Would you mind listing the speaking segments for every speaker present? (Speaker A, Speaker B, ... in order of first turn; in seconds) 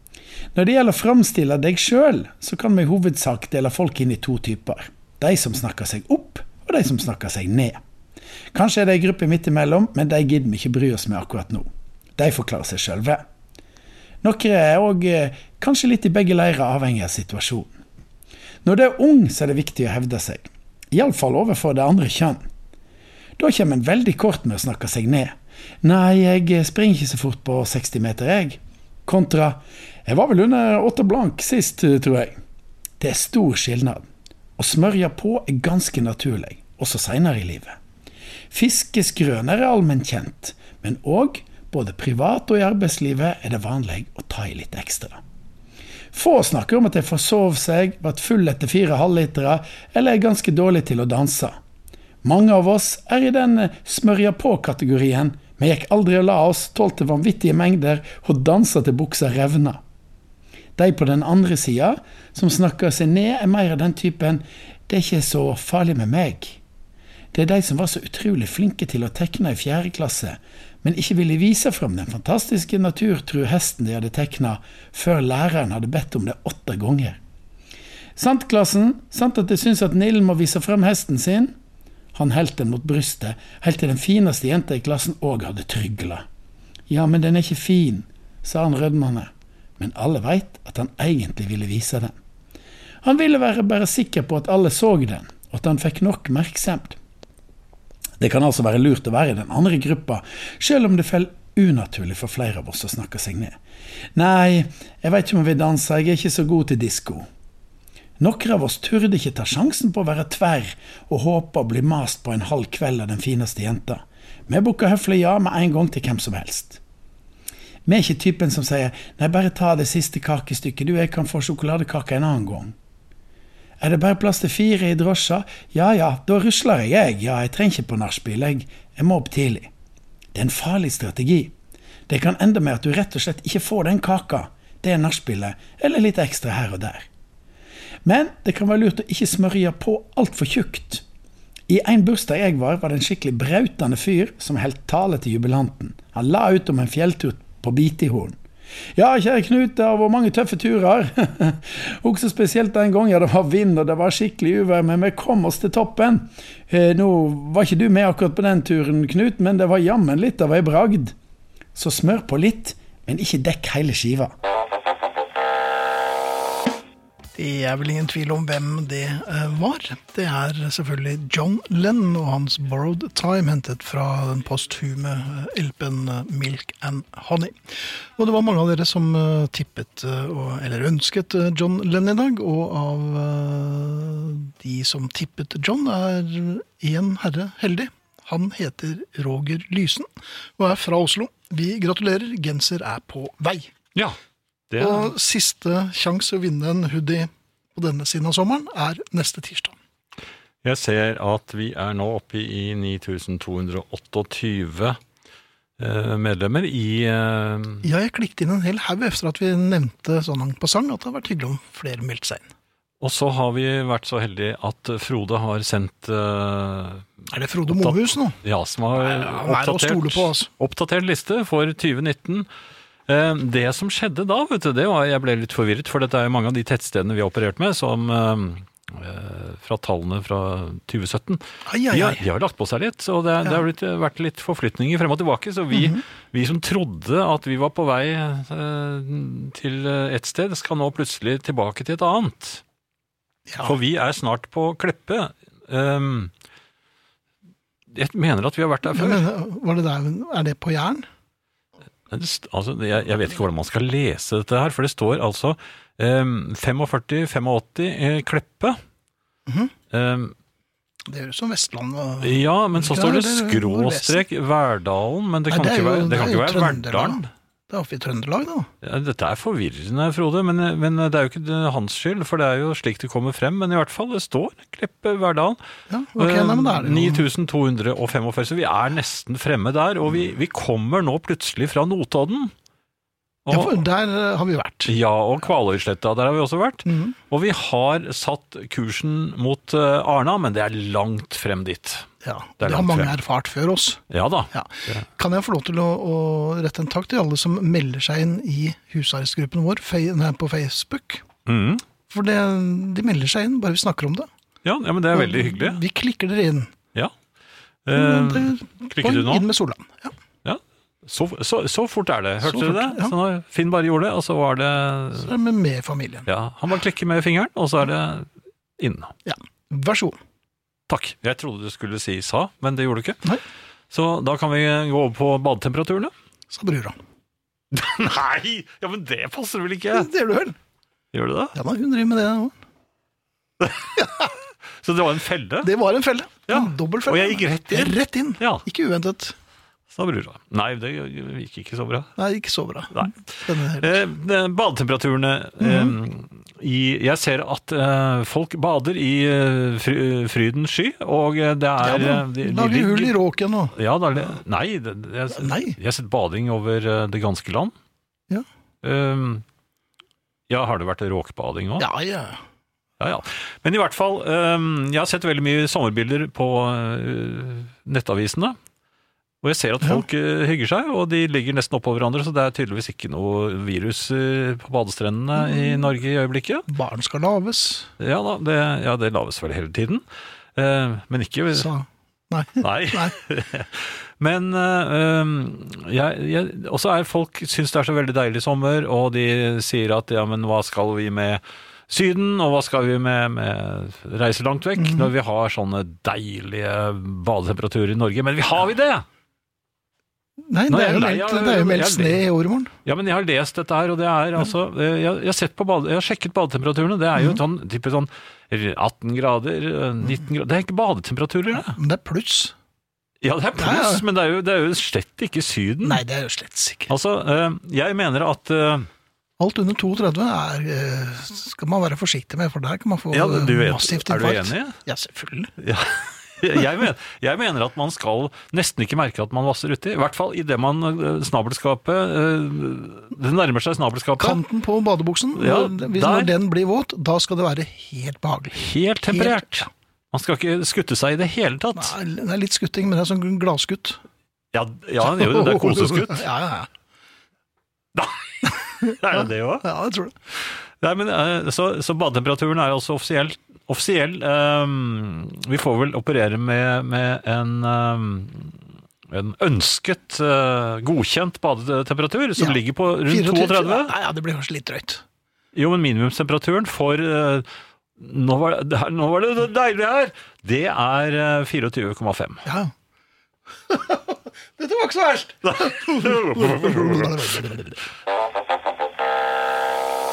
Speaker A: 0.5-7.8, 8.5-13.2, 14.2-17.7, 18.6-22.4, 23.4-32.4, 33.0-34.0, 34.6-37.8, 38.5-45.2, 46.1-51.6, 52.2-59.8, 60.8-66.6, 67.3-77.2, 78.2-81.5, 82.1-86.2, 86.9-92.1, 93.0-97.0, 98.2-103.6, 104.1-107.3, 108.2-116.8, 117.8-122.7, 123.8-129.7, 130.3-131.5, 132.1-137.1, 138.0-141.0, 141.7-148.4, 148.9-161.1, 161.7-164.3
Speaker B: 167.3-193.7, 194.8-199.7, 207.8-212.5, 217.3-218.4, 218.9-220.5, 231.7-232.2, 235.7-236.0, 243.5-243.8, 248.9-251.0, 259.5-259.7, 261.1-264.2, 265.5-268.7, 275.9-277.2, 283.5-284.9, 286.9-287.1, 292.2-294.0, 294.5-301.2, 302.1-304.3, 305.1-306.7, 307.9-310.1, 312.4-313.1, 315.1-316.3, 319.2-320.2, 326.5-327.0, 329.9-330.6, 331.5-332.5, 334.0-334.3, 335.6-339.4, 342.2-344.0, 345.6-346.0, 351.8-354.4, 355.3-355.8, 361.8-362.4, 375.4-375.8, 376.7-377.9, 381.5-383.1, 394.8-395.1, 400.4-402.7, 407.1-407.4, 411.5-412.5, 413.6-414.0, 415.8-416.9, 419.4-425.5, 434.2-439.7, 441.7-444.0, 445.0-446.7, 448.8-450.1, 462.4-465.0, 472.4-472.7, 473.7-477.8
Speaker C: 194.7-195.1, 200.6-205.0, 205.8-207.9, 213.0-217.1, 217.7-222.5, 223.1-242.6, 243.6-246.3, 247.9-249.2, 252.1-258.8, 259.9-260.3, 262.2-267.2, 268.8-275.6, 276.2-282.5, 283.4-283.8, 284.9-292.1, 292.6-293.2, 294.1-295.0, 301.4-301.8, 304.6-305.8, 307.9-309.4, 310.4-315.3, 316.2-319.1, 320.9-323.3, 323.9-326.1, 327.7-330.1, 331.1-331.6, 333.6-335.7, 336.5-338.6, 339.9-342.1, 342.9-353.1, 353.7-357.7, 358.8-359.4, 360.5-361.9, 363.0-368.6, 369.4-376.7, 378.0-380.0, 380.6-381.7, 382.6-399.0, 400.7-402.2, 402.8-411.8, 413.2-416.0, 416.9-418.9, 423.1-424.8, 425.6-434.4, 435.3-436.3, 438.5-441.9, 444.5-446.2, 447.9-449.7, 450.4-463.9, 465.5-467.4, 468.0-472.4, 475.4-477.2